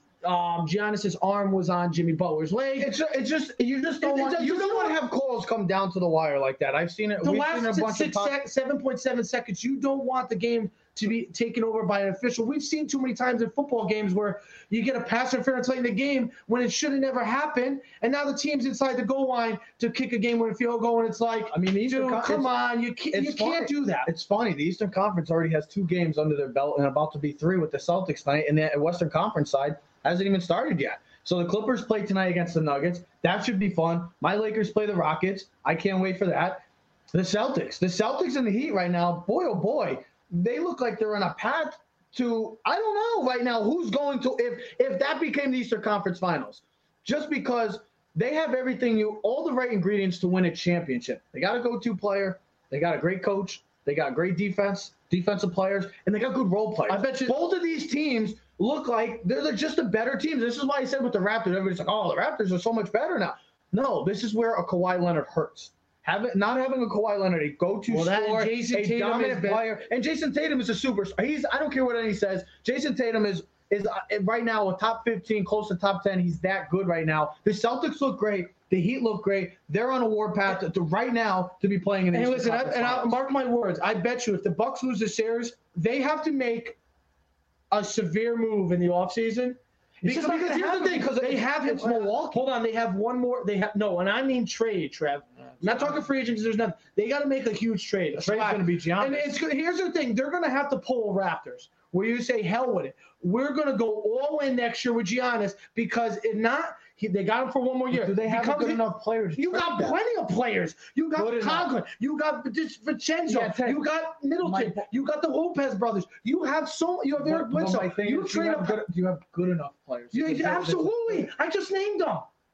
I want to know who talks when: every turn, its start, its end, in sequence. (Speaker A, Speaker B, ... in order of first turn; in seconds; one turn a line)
Speaker A: 0.2-2.9
Speaker B: 2.8-8.3
Speaker A: 4.0-5.0
Speaker A: 7.2-24.1
Speaker B: 21.5-22.5
Speaker B: 23.1-83.2
Speaker A: 56.9-57.4
Speaker A: 67.9-69.6
Speaker A: 82.1-86.8
Speaker A: 87.7-108.8
Speaker B: 90.0-92.4
Speaker B: 95.6-96.0
Speaker B: 98.2-99.3
Speaker B: 107.9-110.0
Speaker A: 109.3-118.8
Speaker B: 111.2-111.7
Speaker B: 113.3-113.8
Speaker B: 114.4-114.9
Speaker B: 117.2-121.3
Speaker A: 120.1-122.3